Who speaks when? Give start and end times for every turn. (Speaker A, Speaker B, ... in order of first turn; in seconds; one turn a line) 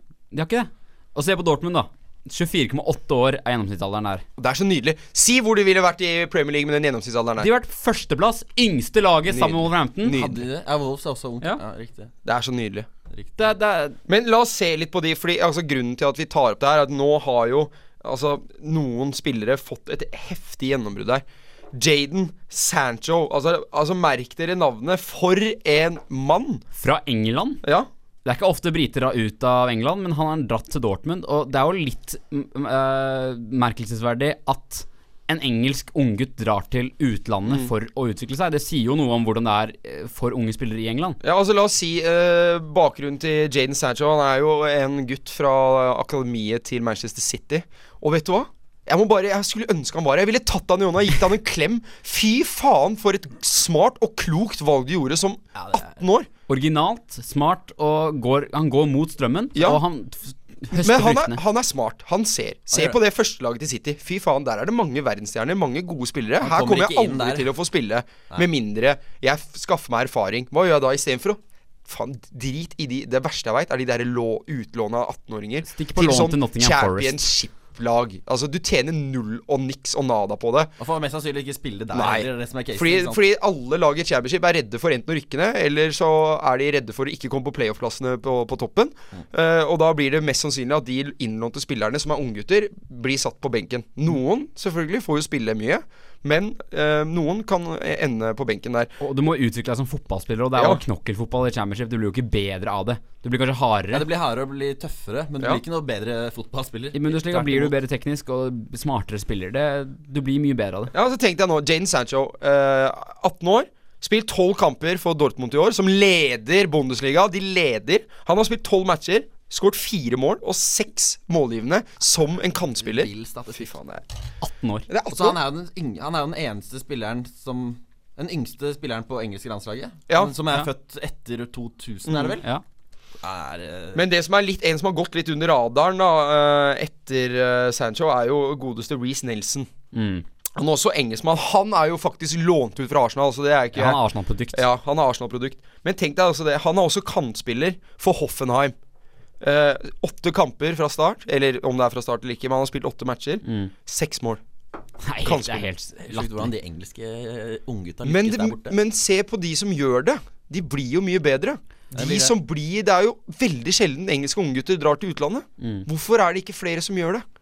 Speaker A: 0.3-4.2
Speaker B: 4.4-7.5
Speaker A: 7.4-10.2
Speaker B: 9.3-10.4
Speaker C: 10.1-12.1
Speaker B: 12.2-12.9
Speaker A: 13.4-14.0
Speaker B: 14.1-26.6
Speaker A: 26.8-27.6
Speaker B: 27.6-27.9
Speaker A: 28.2-41.2
Speaker B: 41.2-56.3
Speaker A: 56.5-61.4
Speaker B: 59.5-59.8
Speaker B: 60.8-80.7
Speaker C: 66.4-67.5
Speaker A: 75.6-77.2
Speaker C: 80.8-83.2
Speaker B: 81.9-98.9
Speaker A: 99.0-104.1
Speaker B: 100.6-100.8
Speaker C: 103.9-107.7
Speaker A: 106.9-110.9
Speaker B: 110.9-124.0
Speaker C: 122.8-123.7
Speaker A: 124.4-124.9
Speaker B: 124.9-125.4
Speaker C: 125.1-132.4
Speaker B: 132.1-132.4
Speaker C: 133.2-134.1
Speaker B: 133.9-139.7
Speaker A: 139.9-140.2
Speaker B: 140.6-144.0
Speaker A: 143.7-144.7
Speaker B: 144.5-148.8
Speaker B: 149.4-154.4
Speaker A: 153.4-153.7
Speaker A: 155.0-156.5
Speaker B: 155.2-155.7
Speaker C: 156.0-158.8
Speaker B: 158.1-167.2
Speaker C: 161.9-162.3
Speaker A: 165.6-165.9